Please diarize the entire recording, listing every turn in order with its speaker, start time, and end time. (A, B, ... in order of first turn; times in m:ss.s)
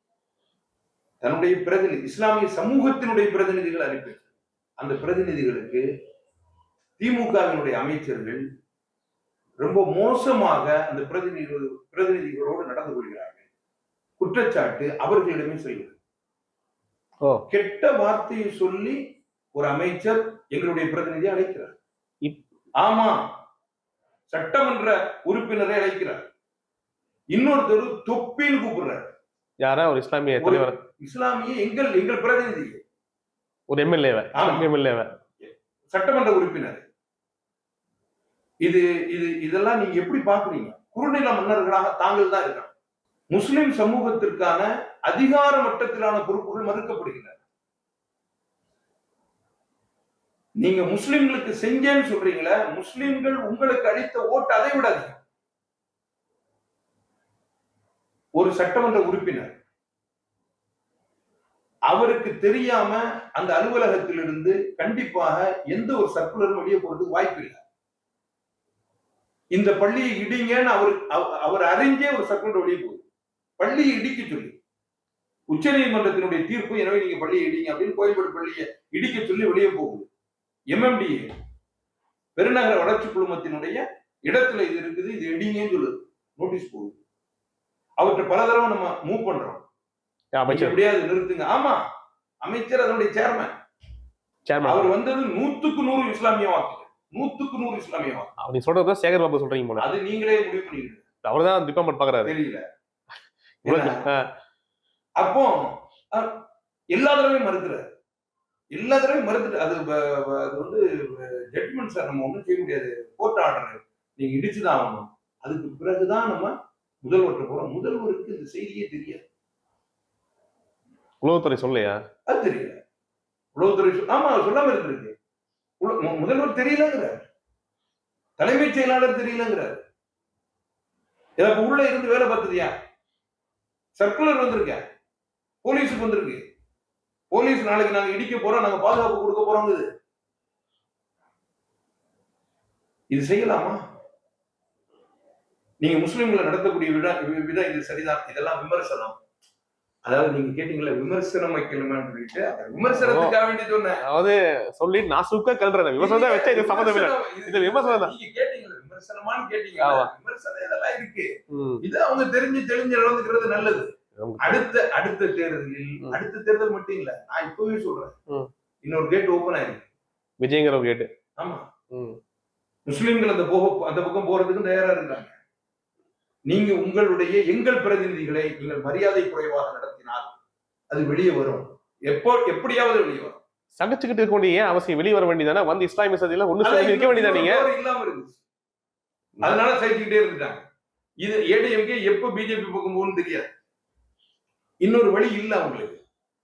0:01.2-0:04.2 A
0:04.8-0:05.8 A
0:07.0-0:08.4 A
0:09.6-0:13.4 A
0:14.2-0:16.0 A
0:17.5-0:19.0 A
0:19.5-0:21.8 A
0:22.8-0:23.2 A
0:24.3-0:26.3 A
0:27.3-0:29.1 A
0:29.6-0:30.8 B
0:30.4-0:32.8 A
0:33.7-0:35.1 B
0:34.3-0:34.7 A
0:35.4-0:36.8 A
0:38.6-0:42.7 A
0:43.3-0:47.4 A
0:50.6-0:55.2 A
0:58.4-0:59.6 A
1:01.9-1:07.6 A
1:09.5-1:13.0 A
1:13.6-1:14.5 A
1:15.5-1:20.0 A
1:20.7-1:21.3 A
1:22.4-1:27.0 A
1:28.0-1:29.6 A
1:30.4-1:30.8 B
1:30.5-1:31.8 A
1:32.4-1:33.5 A
1:34.5-1:34.9 B
1:34.6-1:38.3 A
1:38.4-1:39.9 B
1:39.8-1:41.0 A
1:41.2-1:42.3 B
1:42.2-1:42.6 A
1:43.6-1:44.0 A
1:43.6-1:44.2 B
1:45.2-1:46.4 A
1:46.9-1:47.8 A
1:48.7-1:59.2 A
2:01.2-2:02.0 B
2:02.3-2:02.8 A
2:03.6-2:05.1 A
2:05.8-2:07.2 A
2:08.4-2:09.8 A
2:11.4-2:12.7 A
2:14.0-2:14.8 A
2:15.6-2:16.4 A
2:17.3-2:19.8 A
2:23.1-2:23.8 A
2:25.8-2:29.2 A
2:30.1-2:34.0 A
2:32.9-2:33.3 B
2:34.0-2:38.1 B
2:36.0-2:41.3 A
2:39.8-2:40.1 B
2:41.5-2:41.8 B
2:41.8-2:48.1 A
2:44.2-2:44.6 B
2:48.8-2:49.9 A
2:50.4-2:51.1 B
2:51.4-2:51.6 A
2:51.9-2:52.2 B
2:52.9-2:55.3 A
2:56.5-3:00.4 A
3:00.9-3:03.4 A
3:03.8-3:07.6 B
3:06.6-3:08.4 A
3:09.4-3:10.6 A
3:11.2-3:13.5 A
3:14.8-3:16.0 A